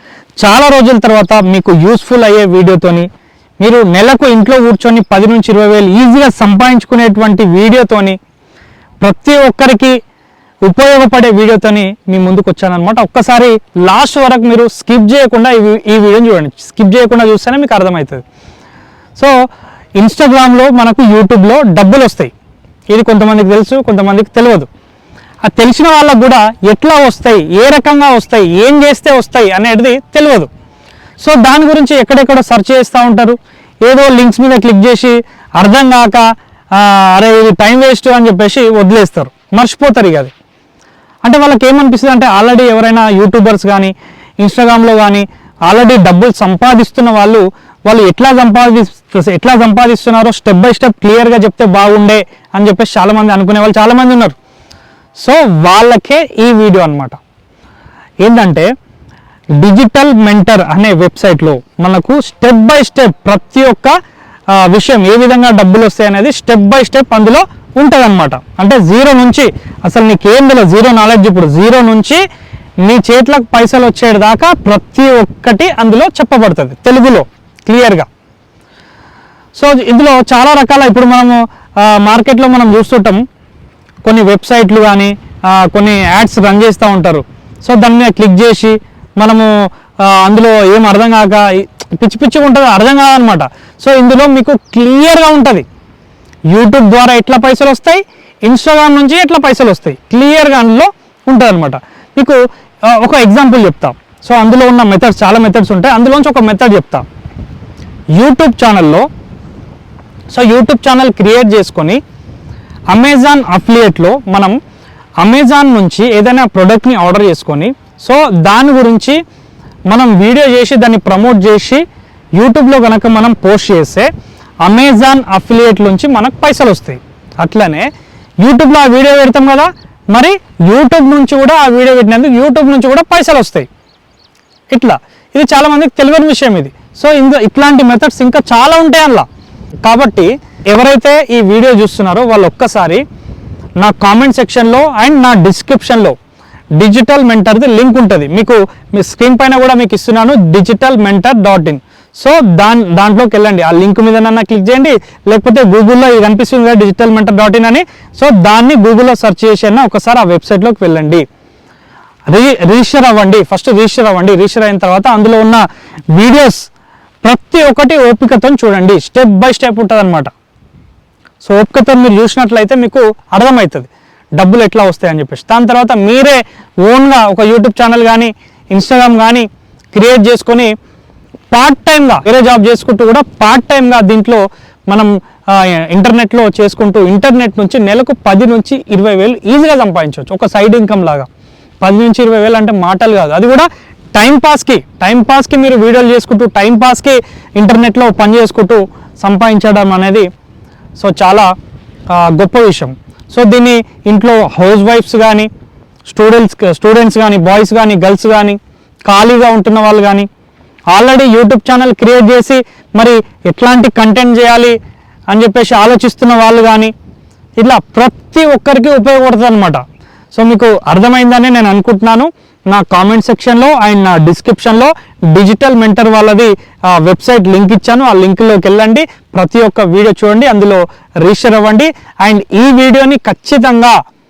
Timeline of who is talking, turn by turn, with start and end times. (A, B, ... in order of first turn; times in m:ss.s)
0:00.4-0:03.1 A
0:03.6-0:08.2 A
0:09.0-0:10.0 A
0:10.7-0:18.2 A
0:20.0-0:22.3 A
0:22.9-0:24.7 A
0:25.4-0:30.5 A
0:31.2-0:40.3 A
0:41.2-0:54.4 A
0:55.2-0:57.2 A
0:58.2-0:58.7 A
0:59.6-1:04.0 A
1:04.6-1:12.2 A
1:12.8-1:18.1 A
1:19.6-1:23.2 A
1:24.0-1:35.6 A
1:36.5-1:47.0 A
1:48.2-1:49.1 A
1:50.3-1:52.0 A
1:52.9-1:54.6 A
1:55.2-1:59.2 A
1:59.9-2:01.8 A
2:02.4-2:04.1 A
2:04.6-2:07.9 A
2:08.4-2:13.7 A
2:14.7-2:19.2 A
2:19.8-2:23.0 A
2:23.8-2:26.2 A
2:26.8-2:41.2 A
2:42.3-2:46.7 A
2:47.2-2:50.3 A
2:51.4-3:00.7 A
3:01.5-3:11.3 A
3:11.8-3:20.3 A
3:21.0-3:21.5 A
3:22.1-3:25.5 A
3:26.1-3:30.3 A
3:30.9-3:34.8 A
3:35.3-3:36.9 A
3:37.6-3:39.8 A
3:40.3-3:54.0 A